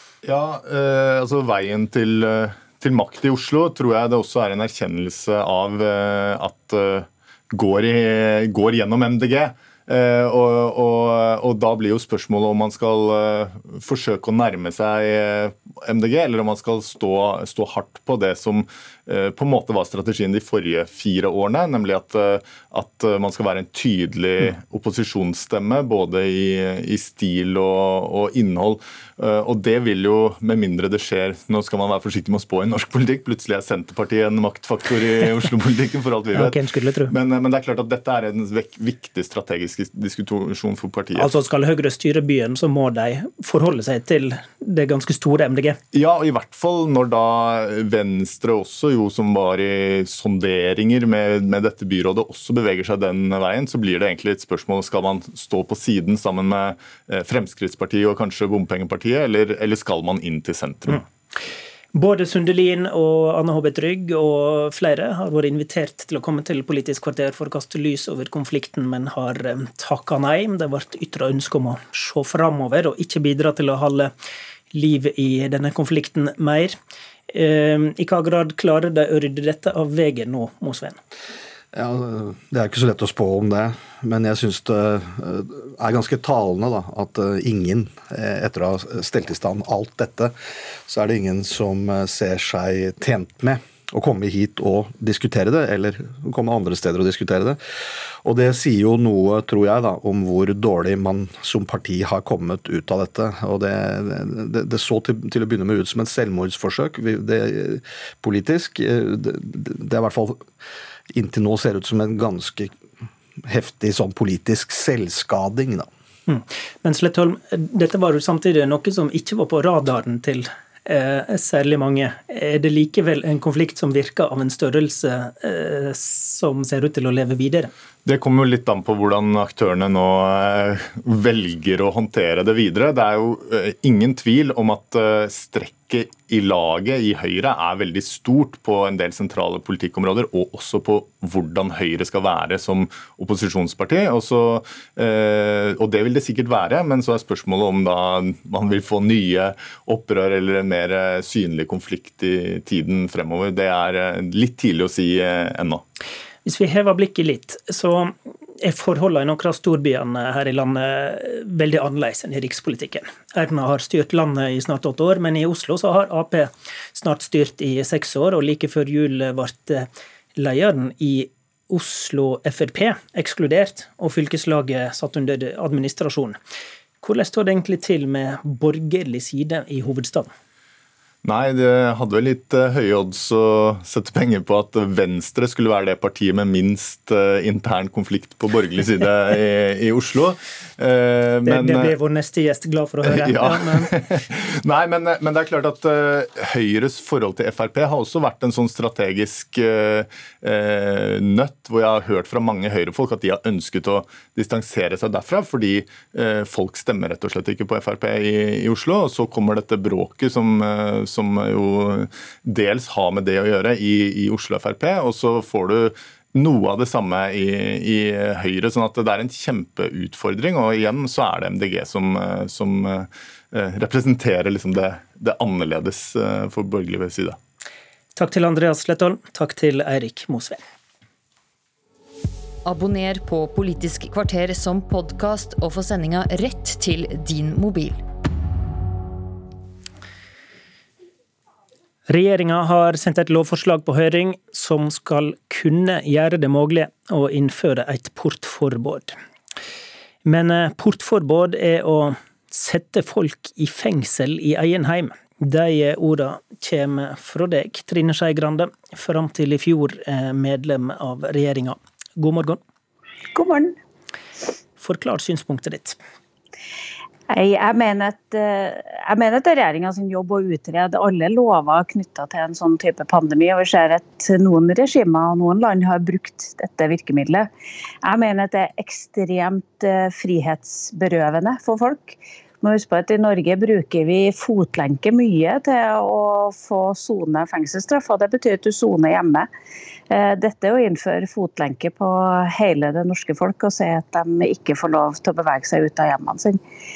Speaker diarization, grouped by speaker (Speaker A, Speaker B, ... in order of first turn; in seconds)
Speaker A: 0.2-41.3, 45.9-61.0, 128.0-155.8, 181.2-191.9, 193.1-227.4
Speaker B: 36.3-37.1, 41.1-45.8, 61.9-74.1, 74.7-76.8, 77.3-81.0, 116.3-127.7, 156.4-176.4, 177.0-180.3, 191.4-193.9, 228.1-230.6, 242.1-249.1, 250.2-262.6, 264.8-266.0
Speaker C: 81.7-90.3, 90.9-97.6, 98.2-110.4, 111.1-112.7, 113.5-115.9
Speaker D: 232.6-238.0
Speaker E: 263.3-263.7, 267.3-277.5, 278.0-289.5, 290.1-296.6